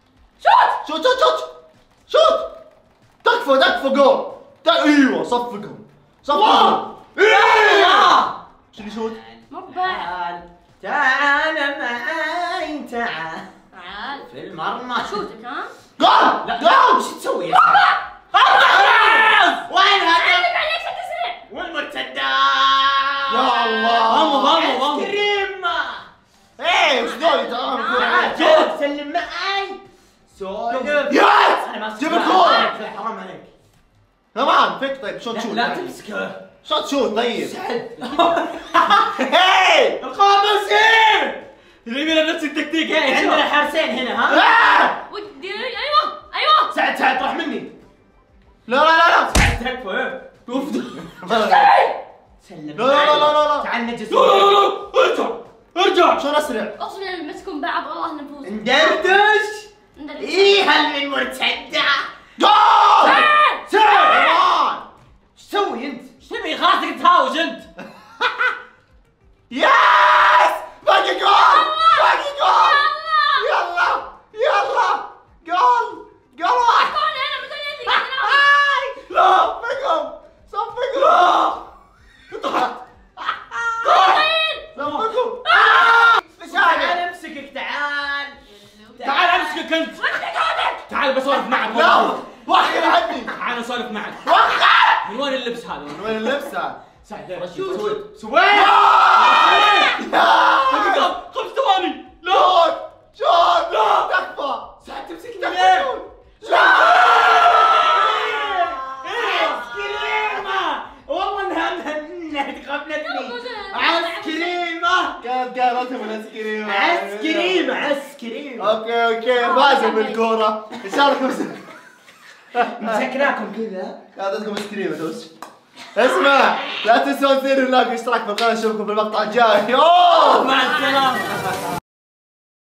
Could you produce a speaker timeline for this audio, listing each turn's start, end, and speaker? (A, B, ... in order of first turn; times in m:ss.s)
0:00.4-0:00.8 A
0:00.8-0:01.5 B
0:02.1-0:02.5 B
0:03.2-0:08.2 B
0:06.3-0:08.3 C
0:08.7-0:09.2 B
0:08.9-0:13.4 C
0:09.5-0:10.1 A
0:13.7-0:14.3 A
0:14.2-0:15.2 C
0:15.0-0:15.7 A
0:16.0-0:17.0 B
0:16.4-0:20.5 C
0:17.5-0:19.1 A
0:18.5-0:19.6 D
0:20.1-0:21.4 A
0:21.5-0:23.6 C
0:23.3-0:24.6 B
0:23.5-0:24.1 A
0:24.0-0:25.2 D
0:24.3-0:26.1 C
0:26.6-0:28.7 B
0:27.0-0:28.3 A
0:27.9-0:33.5 C
0:28.4-0:28.7 D
0:30.7-0:31.0 D
0:31.1-0:32.7 B
0:34.3-0:35.9 B
0:35.3-0:36.4 C
0:36.6-0:37.5 B
0:37.4-0:39.1 C
0:39.0-0:40.0 B
0:40.0-0:41.4 C
0:41.8-0:43.4 D
0:43.0-0:44.5 C
0:44.3-0:44.9 B
0:45.1-0:46.7 A
0:46.7-0:47.7 C
0:48.6-0:49.3 B
0:49.3-0:51.0 C
0:50.5-0:51.7 B
0:51.2-0:52.0 A
0:52.4-0:54.7 C
0:52.7-0:53.7 B
0:54.1-0:56.2 D
0:56.1-0:56.8 B
0:56.8-0:59.2 A
0:58.4-1:02.1 C
0:59.9-1:00.7 A
1:02.4-1:03.3 B
1:03.0-1:03.6 A
1:03.7-1:04.4 C
1:03.9-1:04.8 B
1:05.4-1:06.1 C
1:06.2-1:07.6 D
1:08.2-1:08.5 B
1:09.5-1:17.0 B
1:11.3-1:13.5 A
1:16.7-1:18.4 A
1:17.9-1:21.6 B
1:22.3-1:27.0 B
1:23.8-1:24.7 A
1:24.8-1:25.0 C
1:25.4-1:26.1 A
1:25.8-1:28.4 C
1:28.5-1:30.8 A
1:29.0-1:29.5 C
1:29.0-1:32.2 D
1:31.4-1:31.7 A
1:31.7-1:33.3 B
1:33.3-1:34.3 D
1:34.2-1:35.1 B
1:35.0-1:36.5 D
1:35.8-1:36.8 B
1:37.0-1:39.9 C
1:37.3-1:38.0 D
1:38.5-1:41.1 B
1:39.4-1:39.9 D
1:40.7-1:42.6 D
1:42.2-1:44.7 B
1:43.7-1:44.1 D
1:44.8-1:45.9 C
1:45.4-1:49.5 B
1:47.0-1:48.2 D
1:47.3-1:55.2 C
1:53.0-1:54.7 A
1:55.2-1:57.9 B
1:56.6-1:58.7 C
1:58.6-2:01.6 B
1:59.3-2:00.2 A
2:02.5-2:03.0 B
2:02.6-2:04.0 C
2:04.1-2:05.3 B
2:05.9-2:10.8 B
2:10.2-2:11.4 D